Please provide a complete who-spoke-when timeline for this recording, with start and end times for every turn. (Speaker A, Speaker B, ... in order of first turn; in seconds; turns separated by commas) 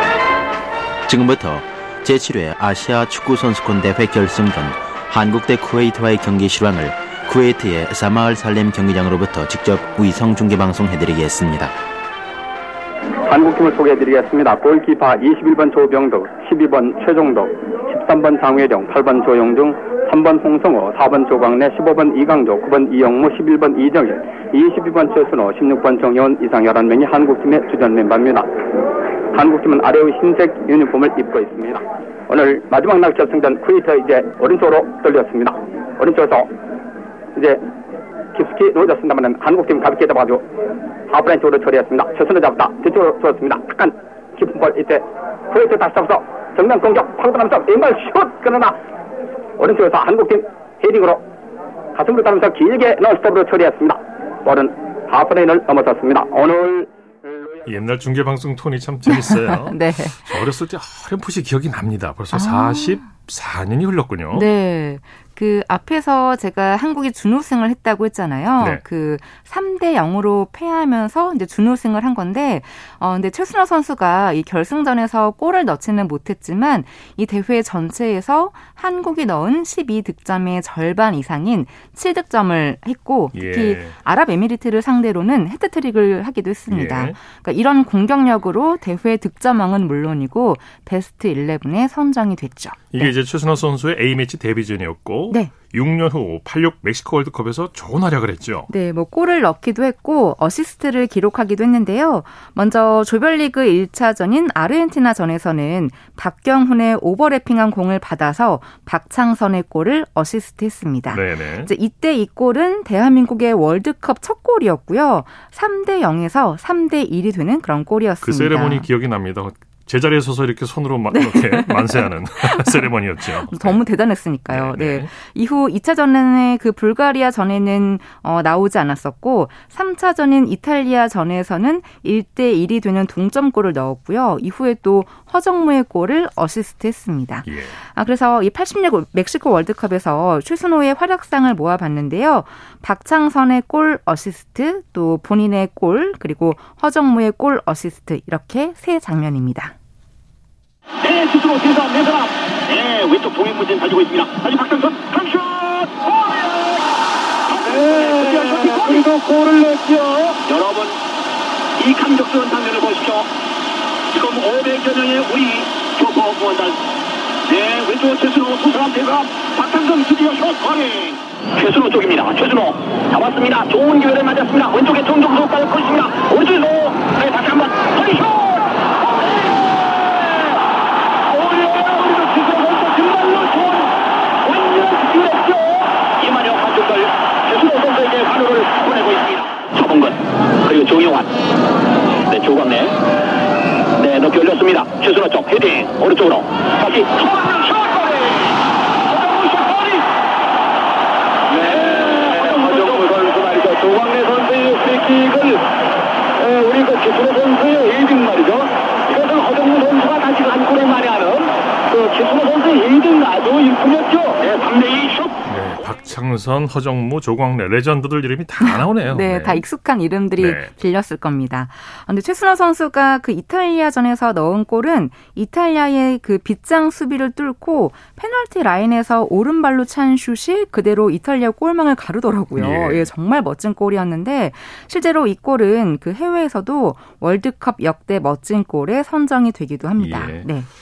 Speaker A: 1.1-11.7, Speaker B: 13.3-28.5, Speaker B: 29.3-36.5, Speaker B: 37.3-37.6, Speaker B: 38.3-40.4, Speaker B: 41.1-48.8, Speaker B: 49.6-51.2, Speaker B: 51.9-57.6, Speaker C: 57.6-64.5, Speaker D: 59.1-60.3, Speaker D: 62.3-63.1, Speaker D: 64.3-93.1, Speaker C: 83.3-84.0, Speaker C: 86.7-87.2, Speaker C: 92.9-98.7, Speaker D: 98.7-118.9, Speaker C: 111.1-111.7, Speaker C: 118.2-123.8, Speaker D: 121.1-149.7, Speaker C: 124.5-125.1, Speaker C: 137.4-137.8, Speaker E: 151.0-156.8, Speaker E: 157.5-161.0, Speaker E: 161.8-163.3, Speaker E: 164.1-166.8, Speaker E: 167.5-179.2, Speaker E: 181.3-191.3, Speaker E: 192.2-192.9, Speaker E: 193.9-198.4, Speaker E: 199.1-200.0, Speaker E: 201.5-205.6, Speaker E: 206.4-215.4, Speaker C: 215.4-219.6, Speaker D: 218.6-240.7, Speaker C: 220.4-220.7, Speaker C: 232.5-233.1, Speaker C: 240.0-240.5